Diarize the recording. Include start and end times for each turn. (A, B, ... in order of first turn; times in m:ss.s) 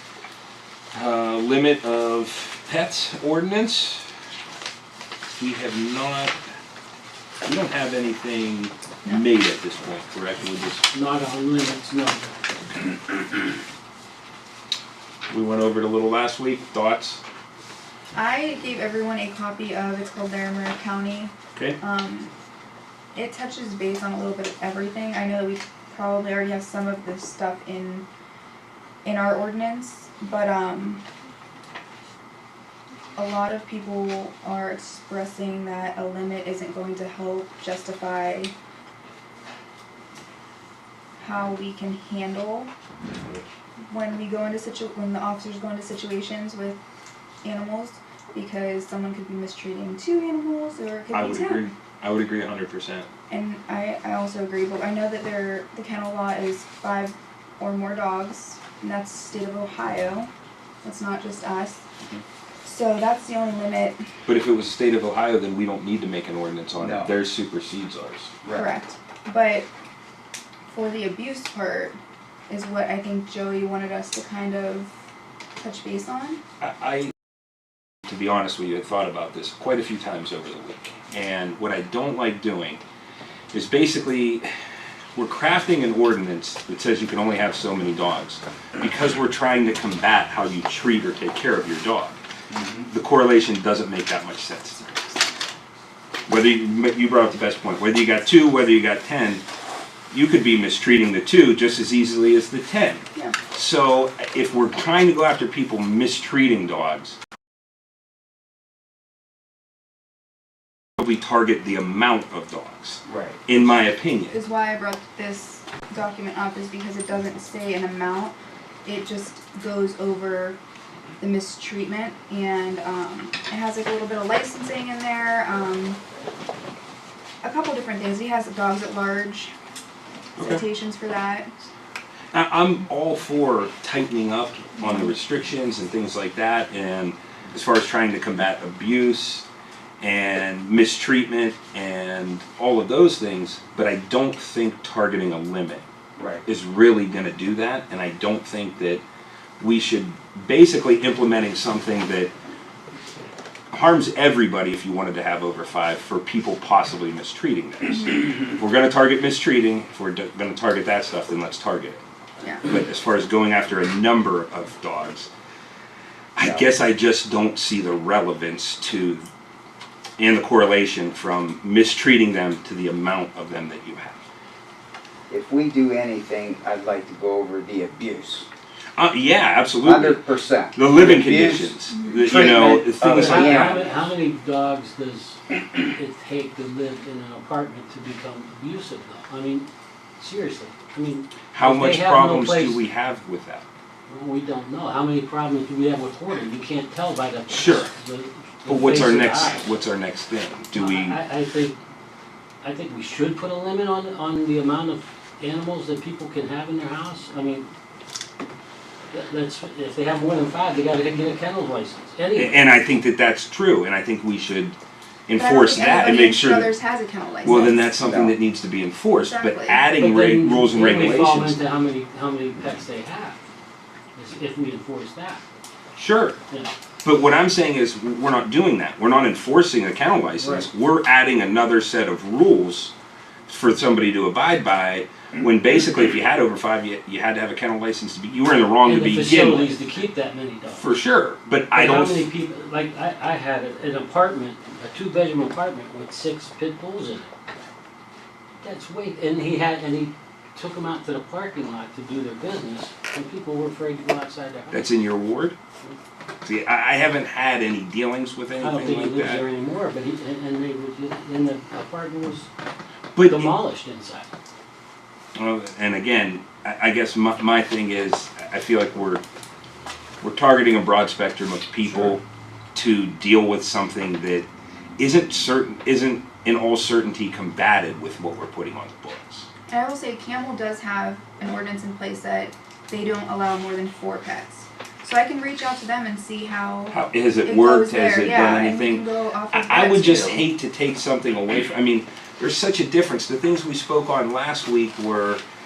0:00.9-0:04.1 A
0:05.3-0:06.3 A
0:07.4-0:10.8 A
0:10.9-0:12.3 B
0:15.3-0:17.2 A
0:18.1-0:22.3 C
0:23.1-0:28.1 C
0:29.0-0:31.0 C
0:33.2-0:38.5 C
0:41.2-0:42.7 C
0:43.9-0:46.8 C
0:47.4-0:51.7 C
0:51.1-0:53.1 A
0:53.3-1:00.3 C
1:00.8-1:01.9 C
1:02.6-1:04.0 C
1:04.2-1:08.3 A
1:06.8-1:07.1 D
1:08.4-1:08.7 D
1:08.5-1:09.7 C
1:10.7-1:14.9 C
1:15.6-1:16.4 C
1:16.6-1:17.1 A
1:18.1-1:22.8 A
1:23.5-1:24.4 A
1:25.1-1:32.2 A
1:32.5-1:32.9 D
1:32.9-1:35.0 A
1:36.3-1:39.4 A
1:40.1-1:47.2 A
1:51.0-1:54.4 A
1:53.0-1:53.4 D
1:54.3-2:00.6 C
2:01.2-2:06.0 C
2:07.4-2:09.5 C
2:10.4-2:11.5 C
2:12.3-2:19.4 A
2:20.0-2:25.8 A
2:26.2-2:26.4 D
2:26.4-2:29.0 A
2:29.6-2:32.3 A
2:33.7-2:42.0 A
2:42.4-2:42.6 C
2:42.6-2:45.3 A
2:46.3-2:49.3 A
2:46.4-2:46.7 D
2:50.2-2:54.2 A
2:55.3-2:58.5 D
2:59.0-3:03.8 A
2:59.8-3:03.9 D
3:03.0-3:09.7 B
3:10.2-3:12.8 B
3:11.5-3:13.6 A
3:14.1-3:19.7 B
3:17.5-3:17.9 A
3:18.6-3:21.2 A
3:20.7-3:21.8 B
3:22.6-3:27.7 B
3:29.1-3:32.6 B
3:32.3-3:34.8 A
3:35.3-3:36.7 A
3:35.3-3:37.9 C
3:37.4-3:41.6 A
3:37.6-3:38.4 D
3:39.2-3:39.8 C
3:39.9-3:43.4 B
3:44.1-3:45.4 B
3:45.9-3:46.4 A
3:47.0-3:52.9 A
3:50.4-3:50.7 B
3:53.5-3:59.8 A
3:58.8-4:00.9 B
4:00.7-4:02.2 A
4:01.7-4:07.3 B
4:08.6-4:15.0 B
4:14.7-4:15.6 A
4:16.4-4:19.4 A
4:18.6-4:22.5 B
4:23.1-4:23.5 A
4:23.2-4:24.3 B
4:25.4-4:29.2 A
4:30.2-4:32.2 A
4:32.7-4:34.5 A
4:35.0-4:39.5 A
4:39.7-4:50.5 C
4:46.9-4:55.4 A